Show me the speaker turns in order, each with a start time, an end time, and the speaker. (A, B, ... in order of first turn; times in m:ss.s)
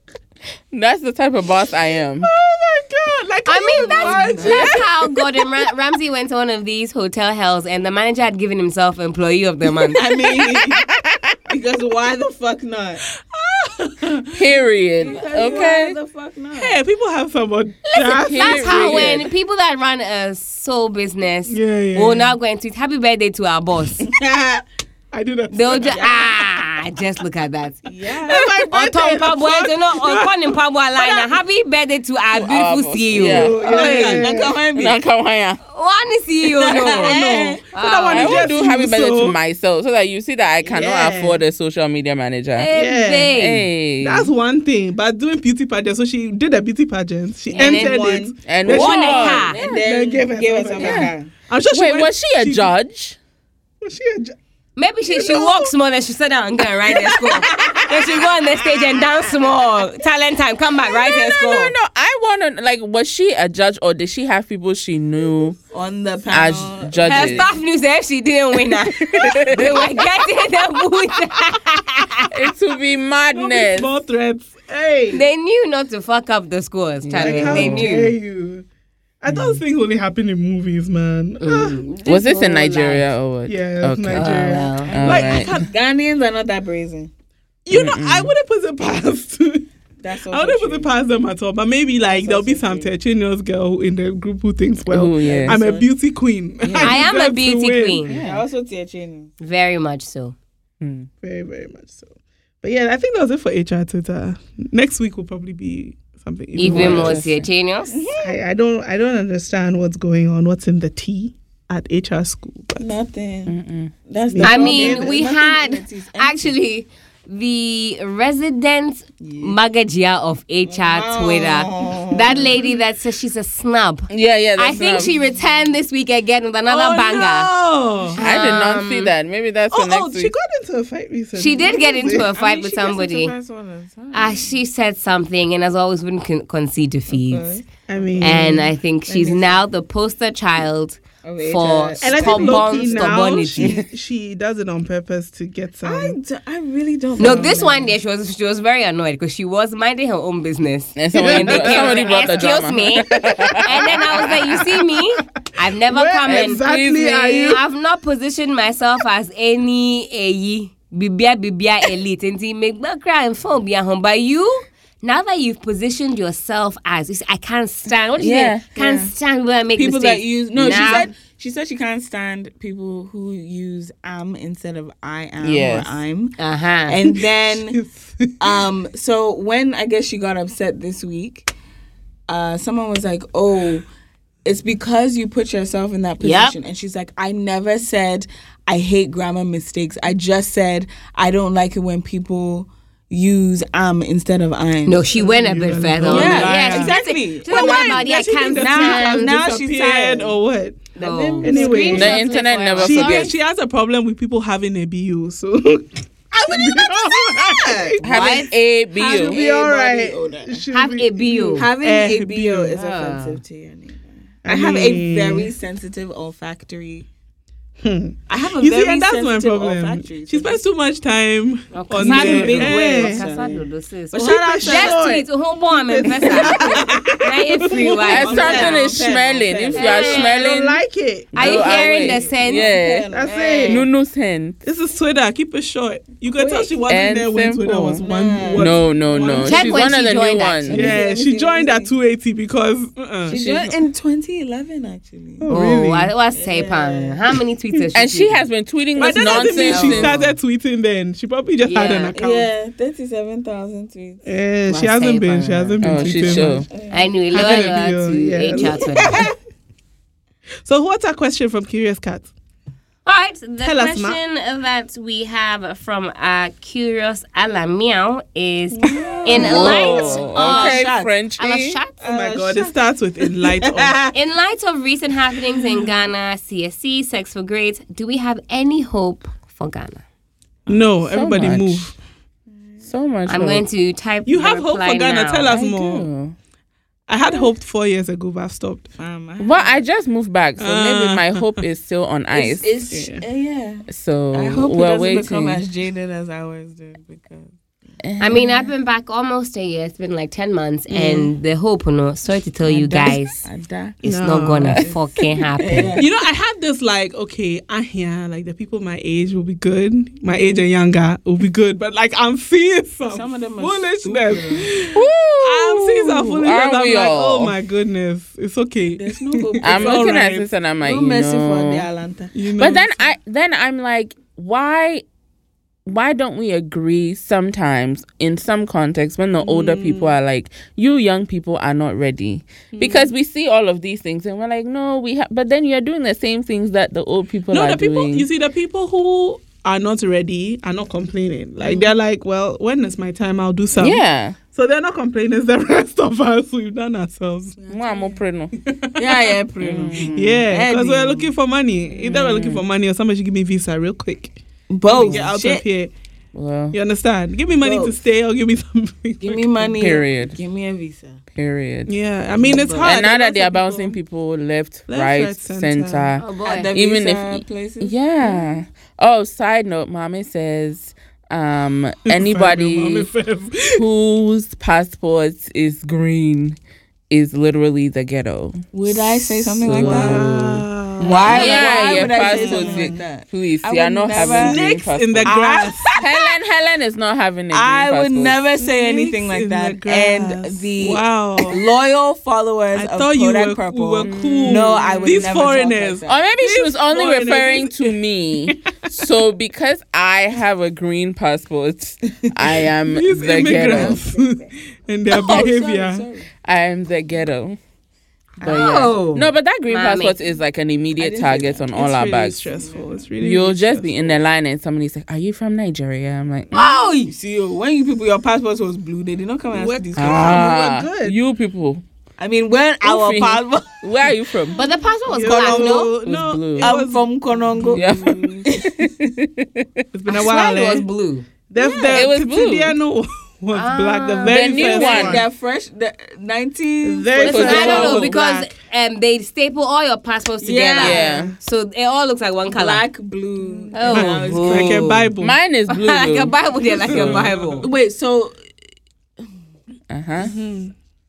0:00.7-0:02.3 A
0:02.2-0:04.8 B
0:03.4-0:10.1 C
0:03.8-0:04.8 D
0:04.4-0:04.8 A
0:09.9-0:10.8 D
0:10.4-0:11.2 A
0:11.5-0:13.0 D
0:13.2-0:14.4 B
0:14.4-0:16.0 A
0:15.0-0:16.8 D
0:16.6-0:19.2 B
0:17.9-0:24.1 C
0:17.9-0:19.3 A
0:21.5-0:22.3 B
0:24.0-0:24.6 D
0:25.1-0:26.3 B
0:25.5-0:34.1 C
0:25.8-0:26.2 D
0:27.8-0:28.5 D
0:28.1-0:31.3 B
0:32.3-0:35.6 A
0:33.2-0:34.6 B
0:33.6-0:35.0 D
0:35.7-0:38.5 C
0:36.5-0:37.6 D
0:36.9-0:39.4 B
0:38.1-0:42.7 A
0:40.6-0:41.4 B
0:42.6-0:43.6 C
0:42.7-0:43.3 B
0:43.3-0:44.3 A
0:44.0-0:52.7 B
0:47.5-0:51.3 D
0:47.5-0:48.0 C
0:48.4-0:49.8 A
0:48.6-0:49.6 C
0:50.8-0:51.1 A
0:51.7-0:53.2 A
0:53.8-0:54.4 B
0:54.8-1:01.5 C
0:55.1-0:55.7 B
0:57.2-0:57.6 D
0:57.3-0:58.2 B
1:01.0-1:01.7 D
1:01.2-1:05.6 A
1:05.7-1:07.5 D
1:06.3-1:07.5 A
1:07.0-1:12.3 C
1:09.0-1:09.8 A
1:12.3-1:13.9 A
1:13.3-1:15.2 B
1:15.1-1:18.2 C
1:17.0-1:17.9 A
1:17.1-1:18.6 B
1:19.2-1:21.8 B
1:19.3-1:19.6 A
1:21.4-1:23.1 C
1:22.0-1:25.6 A
1:23.5-1:25.6 B
1:24.1-1:24.9 C
1:24.8-1:27.1 D
1:27.6-1:29.7 B
1:27.7-1:28.3 A
1:30.0-1:30.9 D
1:30.3-1:38.3 B
1:32.0-1:32.9 D
1:34.9-1:35.7 A
1:35.2-1:35.8 D
1:36.6-1:37.0 A
1:36.8-1:38.2 C
1:38.1-1:39.3 D
1:39.4-1:40.3 C
1:40.8-1:41.1 A
1:41.2-1:42.1 B
1:42.6-1:47.2 B
1:46.5-1:48.0 C
1:46.6-1:47.5 A
1:47.9-1:48.4 D
1:48.2-1:52.9 B
1:52.8-1:53.6 D
1:53.5-1:53.9 A
1:54.1-1:56.5 D
1:54.3-1:55.2 B
1:54.4-2:07.6 C
1:59.2-1:59.6 D
2:00.7-2:02.5 D
2:04.1-2:05.1 A
2:06.7-2:08.3 B
2:08.2-2:09.1 C
2:08.2-2:10.3 A
2:09.7-2:12.3 B
2:11.3-2:13.3 C
2:12.0-2:14.6 D
2:14.1-2:17.5 C
2:17.1-2:18.4 D
2:17.9-2:18.7 B
2:18.2-2:23.8 C
2:19.1-2:19.6 D
2:21.2-2:23.7 D
2:22.0-2:26.2 B
2:25.8-2:27.9 D
2:27.2-2:51.1 C
2:31.0-2:34.5 A
2:31.1-2:32.5 B
2:33.2-2:35.0 B
2:35.9-2:37.6 B
2:36.2-2:37.5 A
2:48.2-2:48.6 A
2:48.7-2:49.1 D
2:49.8-2:56.4 D
2:55.4-2:56.0 A
2:56.4-2:57.0 C
2:56.9-2:57.8 D
2:57.1-2:58.6 B
2:58.4-3:01.5 D
3:02.3-3:03.9 D
3:04.4-3:15.1 D
3:06.2-3:06.5 C
3:14.8-3:19.4 C
3:15.1-3:20.8 B
3:16.0-3:20.4 D
3:20.9-3:22.2 D
3:21.0-3:23.3 C
3:21.4-3:22.2 B
3:21.9-3:23.3 A
3:22.8-3:28.0 B
3:26.5-3:28.0 D
3:28.0-3:28.5 C
3:28.0-3:29.4 A
3:28.9-3:30.6 D
3:29.0-3:32.8 B
3:30.7-3:31.7 C
3:31.5-3:37.0 D
3:32.7-3:33.4 C
3:34.4-3:35.5 B
3:37.8-3:43.3 B
3:38.3-3:40.6 D
3:41.7-3:48.8 C
3:42.0-3:45.0 D
3:44.1-3:45.3 B
3:45.8-3:48.8 B
3:46.0-3:49.9 D
3:48.1-3:50.8 A
3:49.7-3:50.4 C
3:49.9-3:52.2 B
3:51.3-3:53.1 A
3:51.3-3:52.7 C
3:52.4-3:53.8 D
3:53.1-3:53.9 B
3:53.6-3:54.6 A
3:54.6-3:59.8 B
3:56.4-3:56.7 D
3:56.9-3:58.0 A
3:58.0-3:59.4 D
3:58.6-4:01.0 A
3:59.4-4:00.7 C
4:00.7-4:01.9 D
4:00.7-4:03.4 B
4:03.2-4:05.5 D
4:03.3-4:03.8 A
4:05.4-4:06.1 B
4:05.5-4:08.4 C
4:06.3-4:07.2 D
4:07.9-4:10.2 A
4:09.0-4:12.5 B
4:09.2-4:10.3 C
4:11.6-4:12.1 C
4:12.1-4:14.2 D
4:14.2-4:16.7 B
4:14.7-4:15.8 C
4:15.8-4:16.7 A
4:16.0-4:17.1 D
4:16.9-4:19.2 C
4:17.3-4:19.3 B
4:18.5-4:19.3 D
4:20.6-4:22.3 B
4:23.0-4:32.0 C
4:23.6-4:24.2 B
4:28.8-4:31.1 D
4:29.3-4:29.8 B
4:29.3-4:31.8 A
4:32.0-4:34.1 D
4:32.0-4:34.0 B
4:34.1-4:40.0 C
4:40.7-4:42.0 B
4:41.0-4:41.9 A
4:42.5-4:42.8 D
4:42.8-4:43.6 A
4:43.3-4:45.6 C
4:44.2-4:46.1 B
4:45.5-4:46.3 A
4:47.1-4:48.9 B
4:49.0-4:49.8 D
4:49.4-4:52.8 A
4:50.6-4:51.6 B
4:52.3-4:58.0 D
4:52.9-4:53.2 B
4:53.9-4:55.6 A
4:58.0-4:58.4 A
4:58.2-5:03.4 C
5:00.9-5:01.3 B
5:02.6-5:04.1 D
5:04.0-5:04.8 B
5:04.0-5:06.0 C
5:04.6-5:05.0 D
5:05.6-5:06.1 D
5:06.0-5:20.5 B
5:13.1-5:14.7 D
5:14.9-5:17.5 A
5:18.9-5:20.2 D
5:19.6-5:21.8 A
5:20.8-5:22.4 D
5:22.3-5:23.1 B
5:22.6-5:25.0 A
5:25.8-5:38.3 A
5:29.4-5:30.1 B
5:32.7-5:33.1 B
5:37.5-5:47.6 B
5:43.8-5:44.4 A
5:47.6-5:48.0 D
5:47.7-5:48.5 A
5:48.6-5:49.4 B
5:49.0-5:51.3 D
5:49.6-5:50.4 A
5:50.0-5:55.9 B
5:52.0-5:52.6 A
5:54.7-5:55.6 D
5:54.9-5:55.2 A
5:56.3-5:56.8 A
5:56.7-5:59.9 B
5:57.6-5:57.9 D
5:59.2-6:01.2 D
5:59.7-6:00.4 A
6:01.3-6:01.9 A
6:01.9-6:04.0 B
6:02.4-6:03.0 D
6:02.8-6:13.1 A
6:04.9-6:06.2 B
6:06.2-6:06.7 C
6:06.4-6:07.9 D
6:12.1-6:13.8 B
6:13.8-6:16.6 A
6:17.1-6:20.6 A
6:18.7-6:20.4 D
6:19.8-6:23.0 B
6:21.0-6:24.6 D
6:21.1-6:21.7 C
6:21.3-6:25.4 A
6:24.2-6:26.0 B
6:25.2-6:26.4 D
6:25.9-6:28.4 A
6:27.5-6:36.2 D
6:28.6-6:31.6 B
6:32.7-6:38.0 B
6:34.0-6:35.4 A
6:36.1-6:44.0 A
6:42.9-6:46.0 B
6:43.4-6:44.2 D
6:45.1-6:46.3 D
6:46.4-6:47.6 A
6:48.4-6:49.0 D
6:48.4-6:52.4 A
6:48.4-6:50.2 C
6:51.0-6:51.7 D
6:51.7-6:54.2 B
6:52.4-6:53.0 D
6:53.2-6:56.5 A
6:56.5-6:57.1 C
6:57.0-7:00.5 D
6:59.5-7:01.1 B
7:00.0-7:01.8 A
7:02.2-7:03.8 D
7:02.8-7:04.6 A
7:04.5-7:05.9 C
7:05.1-7:08.4 B
7:05.2-7:05.9 D
7:06.0-7:06.8 A
7:06.6-7:09.1 D
7:07.7-7:09.8 A
7:09.9-7:10.9 B
7:10.1-7:11.3 C
7:11.5-7:15.3 B
7:11.9-7:12.7 A
7:13.5-7:15.2 C
7:14.2-7:15.2 A
7:14.7-7:18.2 D
7:16.8-7:18.5 B
7:17.2-7:18.1 A
7:17.2-7:22.8 C
7:20.4-7:21.0 D
7:20.8-7:21.3 A
7:20.9-7:21.3 B
7:22.5-7:24.9 D
7:23.4-7:25.4 B
7:23.7-7:25.1 C
7:25.2-7:27.3 A
7:25.7-7:27.7 C
7:26.8-7:27.7 B
7:27.6-7:28.3 D
7:29.9-7:30.3 A
7:30.2-7:30.7 B